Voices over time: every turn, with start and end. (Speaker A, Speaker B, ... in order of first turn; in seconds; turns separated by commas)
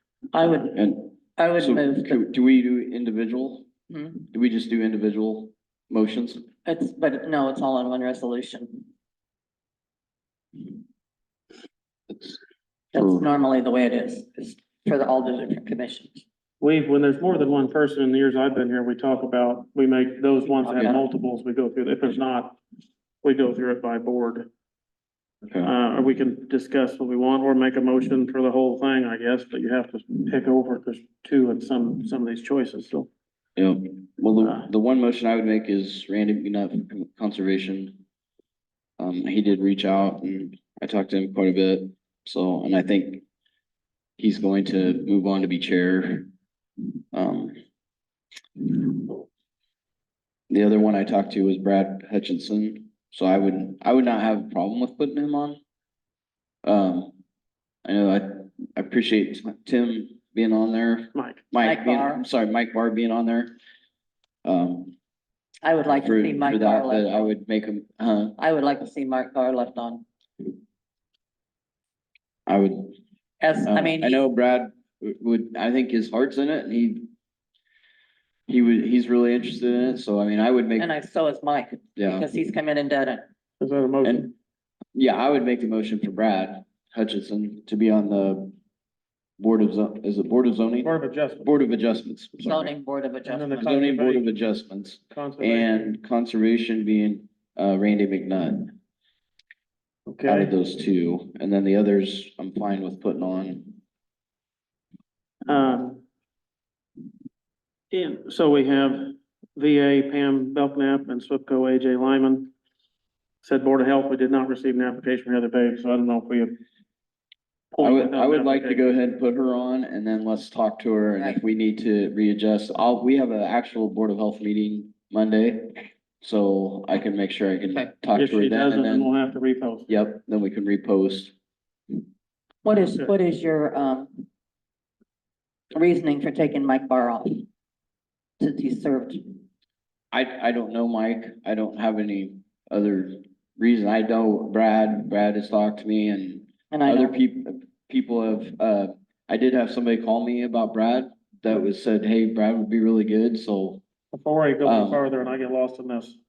Speaker A: 0.3-0.8, Speaker B: 0.7-3.7, Speaker A: 1.4-2.2, Speaker B: 4.3-6.4, Speaker A: 6.7-8.8, Speaker A: 12.9-16.2, Speaker C: 16.6-22.6, Speaker A: 20.6-21.0, Speaker C: 23.2-24.5, Speaker C: 25.6-33.1, Speaker B: 33.5-38.0, Speaker C: 34.4-34.7, Speaker B: 39.0-43.2, Speaker B: 44.2-46.3, Speaker B: 47.1-47.5, Speaker B: 50.5-55.6, Speaker B: 56.6-57.1, Speaker B: 57.8-63.5, Speaker C: 61.1-61.5, Speaker A: 61.6-62.2, Speaker B: 64.4-64.9, Speaker A: 65.6-67.3, Speaker B: 66.0-68.3, Speaker A: 68.4-70.0, Speaker B: 72.5-73.0, Speaker A: 73.4-74.2, Speaker B: 73.7-77.1, Speaker B: 78.5-80.9, Speaker A: 80.8-83.2, Speaker B: 82.0-82.3, Speaker C: 83.6-84.3, Speaker B: 84.0-84.3, Speaker B: 84.9-88.5, Speaker B: 89.4-90.9, Speaker C: 90.8-91.5, Speaker B: 91.4-92.7, Speaker A: 92.4-93.8, Speaker C: 93.2-94.3, Speaker B: 93.6-98.7, Speaker C: 95.1-95.9, Speaker C: 100.1-100.5, Speaker B: 100.2-103.8, Speaker C: 105.5-106.0, Speaker C: 107.9-112.5, Speaker C: 113.4-116.6, Speaker C: 117.7-118.9, Speaker B: 117.8-129.1, Speaker C: 128.1-129.9, Speaker B: 129.9-131.3, Speaker A: 132.6-134.2, Speaker A: 135.7-137.4, Speaker A: 138.4-139.2, Speaker B: 140.1-153.8, Speaker A: 146.7-147.2, Speaker C: 154.1-156.2, Speaker B: 154.6-155.0